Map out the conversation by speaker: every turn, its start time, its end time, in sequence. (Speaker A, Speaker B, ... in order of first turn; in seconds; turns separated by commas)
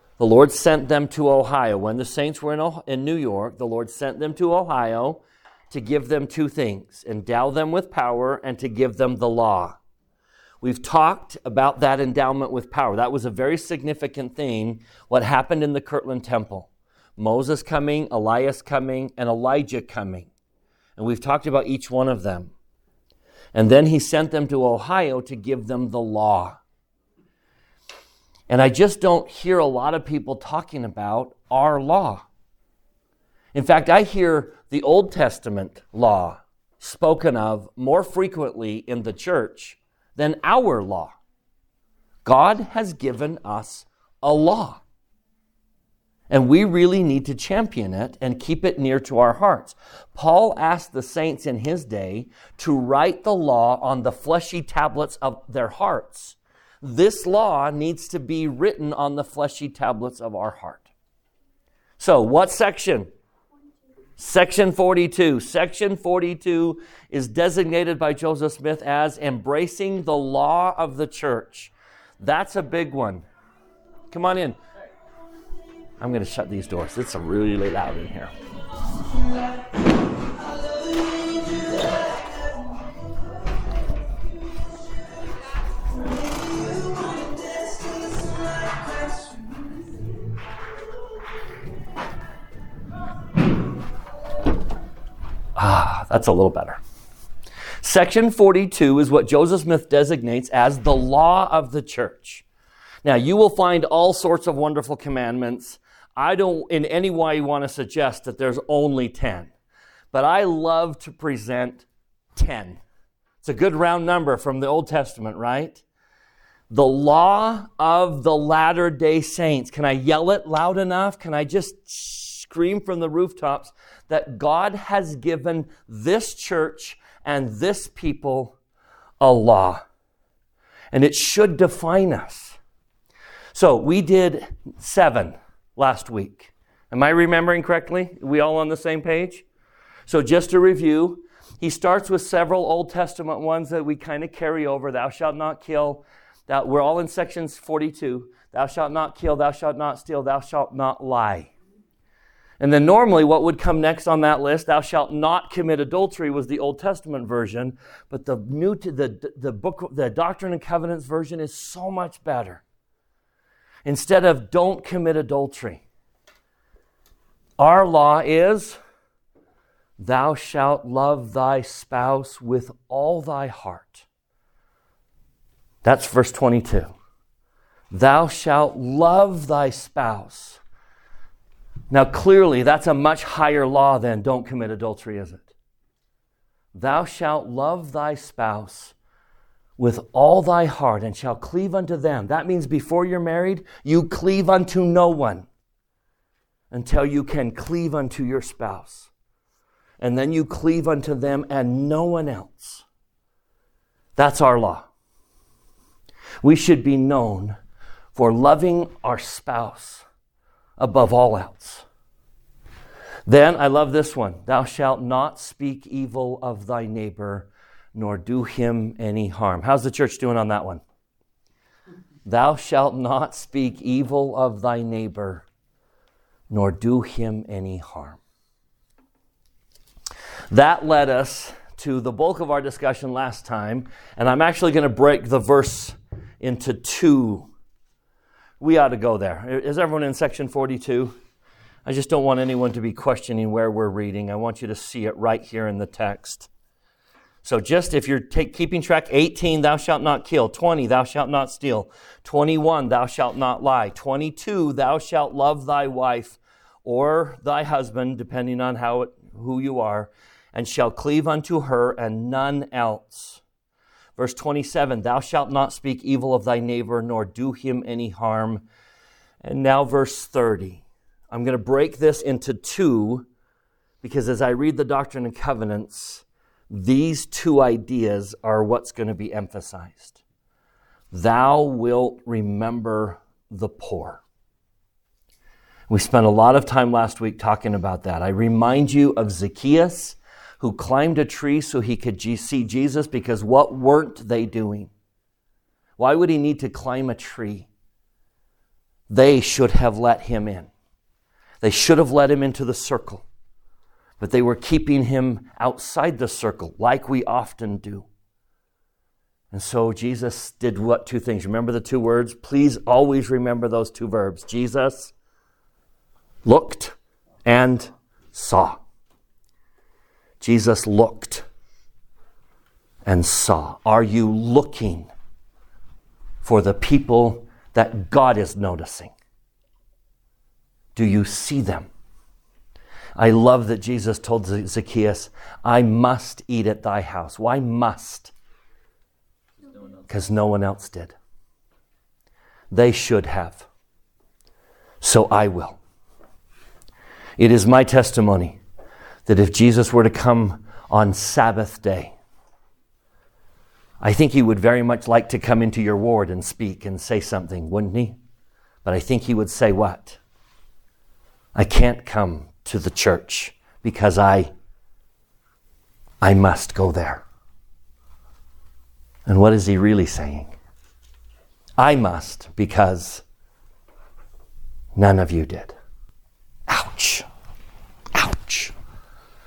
Speaker A: 0.2-9.8, Speaker A: 10.6-20.3, Speaker A: 21.0-22.5, Speaker A: 23.5-26.6, Speaker A: 28.5-32.3, Speaker A: 33.5-41.1, Speaker A: 42.2-44.8, Speaker A: 46.3-60.9, Speaker A: 62.0-63.1, Speaker A: 64.2-73.2, Speaker A: 74.1-74.6, Speaker A: 76.0-78.3, Speaker A: 95.6-96.8, Speaker A: 97.8-102.5, Speaker A: 103.0-109.5, Speaker A: 110.1-111.8, Speaker A: 112.4-112.8, Speaker A: 113.4-115.8, Speaker A: 116.7-128.6, Speaker A: 129.2-129.8, Speaker A: 130.9-132.6, Speaker A: 133.5-139.4, Speaker A: 140.1-151.5, Speaker A: 152.6-162.6, Speaker A: 163.8-165.8, Speaker A: 167.6-168.8, Speaker A: 170.0-174.1, Speaker A: 175.8-176.9, Speaker A: 177.9-180.6, Speaker A: 181.9-185.5, Speaker A: 186.8-188.9, Speaker A: 189.8-195.5, Speaker A: 196.7-199.1, Speaker A: 200.0-202.8, Speaker A: 204.2-204.9, Speaker A: 206.4-207.6, Speaker A: 208.2-210.1, Speaker A: 210.8-211.8, Speaker A: 213.3-220.8, Speaker A: 222.2-225.4, Speaker A: 226.5-228.2, Speaker A: 230.5-237.5, Speaker A: 238.6-241.2, Speaker A: 241.9-246.5, Speaker A: 247.4-263.4, Speaker A: 264.2-268.6, Speaker A: 269.4-273.3, Speaker A: 274.0-280.2, Speaker A: 281.1-284.2, Speaker A: 285.9-294.9, Speaker A: 296.0-297.7, Speaker A: 299.1-300.7, Speaker A: 301.6-303.2, Speaker A: 304.2-308.1, Speaker A: 309.5-315.1, Speaker A: 316.4-318.8, Speaker A: 320.4-321.5, Speaker A: 323.1-325.1, Speaker A: 326.4-329.1, Speaker A: 330.9-331.9, Speaker A: 333.2-338.3, Speaker A: 340.1-341.1, Speaker A: 342.7-343.7, Speaker A: 345.0-345.8, Speaker A: 347.4-348.6, Speaker A: 349.3-352.1, Speaker A: 354.0-358.2, Speaker A: 358.8-360.2, Speaker A: 361.6-364.5, Speaker A: 366.2-367.2, Speaker A: 369.3-370.5, Speaker A: 371.8-373.2, Speaker A: 375.0-375.8, Speaker A: 376.7-377.3, Speaker A: 378.1-378.7